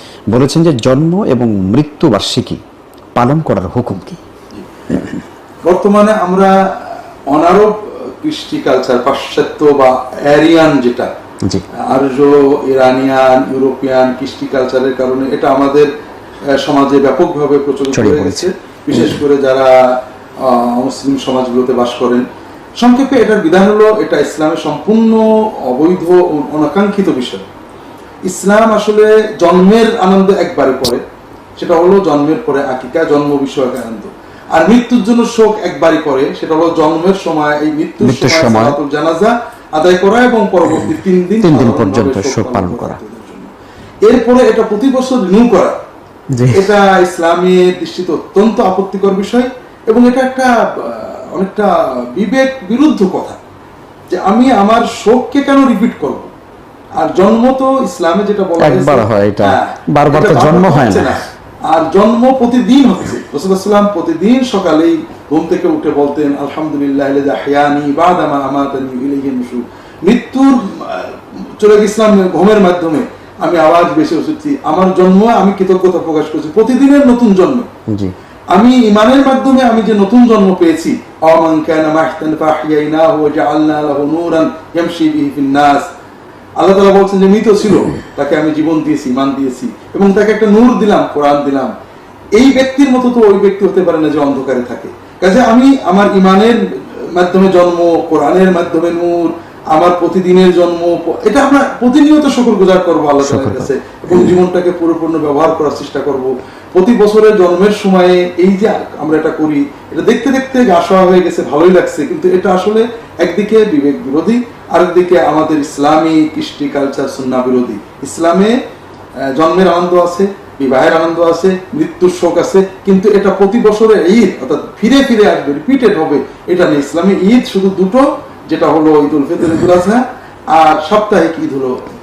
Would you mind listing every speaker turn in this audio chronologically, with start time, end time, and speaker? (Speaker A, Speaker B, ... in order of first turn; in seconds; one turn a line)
Speaker A: 0.3-2.6
Speaker A: 3.1-4.2
Speaker B: 4.5-4.8
Speaker B: 5.6-11.1
Speaker B: 11.9-15.9
Speaker B: 16.6-22.3
Speaker A: 17.9-19.2
Speaker B: 22.8-27.4
Speaker B: 28.3-31.0
Speaker B: 31.6-43.5
Speaker A: 38.0-38.8
Speaker A: 40.6-43.0
Speaker B: 44.0-45.8
Speaker A: 46.3-46.8
Speaker B: 46.5-53.4
Speaker B: 54.1-56.3
Speaker B: 57.0-77.7
Speaker A: 58.6-61.1
Speaker A: 77.9-78.1
Speaker B: 78.5-85.8
Speaker B: 86.6-91.7
Speaker B: 92.3-96.6
Speaker B: 97.1-118.6
Speaker A: 103.2-104.3
Speaker B: 119.3-131.9